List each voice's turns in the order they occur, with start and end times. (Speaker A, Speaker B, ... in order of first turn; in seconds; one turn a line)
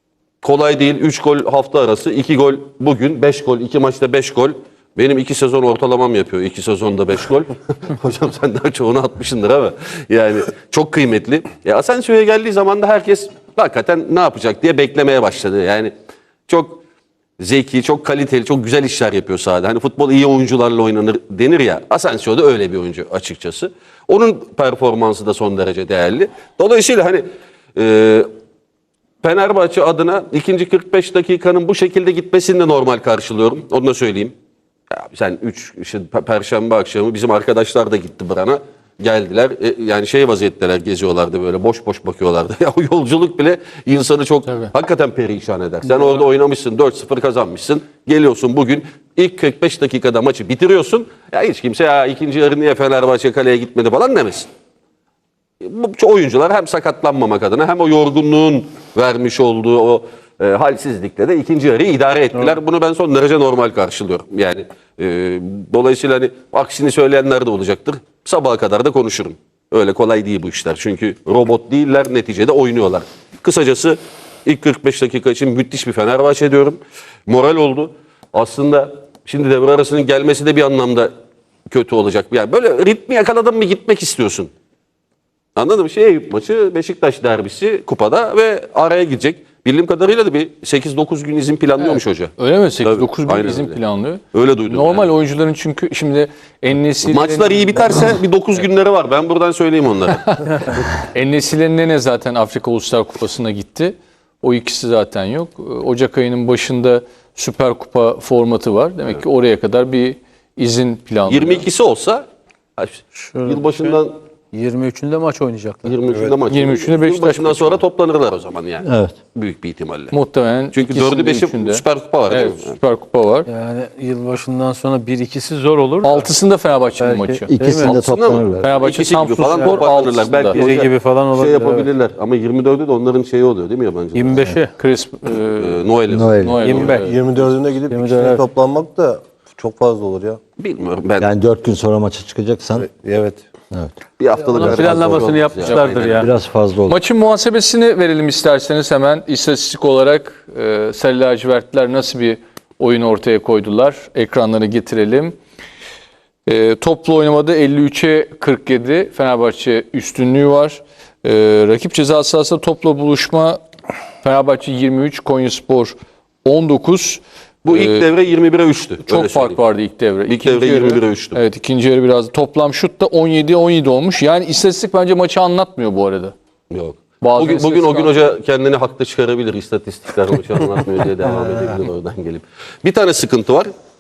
Speaker A: 0.4-15.9
Speaker A: 16.5-16.8
Speaker A: 17.4-28.3
Speaker A: 29.2-34.3
Speaker A: 34.9-54.5
Speaker A: 55.6-81.1
Speaker A: 81.7-84.5
Speaker A: 85.5-93.8
Speaker B: 91.8-98.0
Speaker A: 94.3-95.1
Speaker A: 97.0-100.3
Speaker B: 100.3-111.7
Speaker A: 111.3-112.3
Speaker A: 112.8-114.2
Speaker C: 113.1-114.0
Speaker C: 114.5-116.3
Speaker A: 115.8-120.2
Speaker B: 116.5-117.8
Speaker D: 118.8-119.1
Speaker B: 120.1-123.5
Speaker A: 120.7-122.8
Speaker C: 123.5-126.3
Speaker B: 126.0-127.5
Speaker C: 127.0-128.0
Speaker D: 127.5-128.7
Speaker A: 127.8-134.4
Speaker B: 128.6-130.6
Speaker C: 129.5-129.8
Speaker C: 130.5-131.9
Speaker C: 134.1-134.7
Speaker B: 134.8-137.1
Speaker A: 135.6-136.3
Speaker D: 136.1-136.7
Speaker C: 136.6-138.5
Speaker E: 136.7-140.4
Speaker A: 140.6-141.3
Speaker D: 141.2-142.9
Speaker E: 142.8-143.4
Speaker A: 144.2-146.3
Speaker C: 144.4-146.3
Speaker D: 144.6-145.1
Speaker B: 145.6-146.0
Speaker D: 146.1-147.0
Speaker B: 146.9-155.3
Speaker B: 156.5-163.6
Speaker B: 164.2-168.0
Speaker A: 167.7-169.6
Speaker B: 169.0-176.3
Speaker A: 170.3-171.4
Speaker A: 176.7-183.7
Speaker B: 177.2-178.3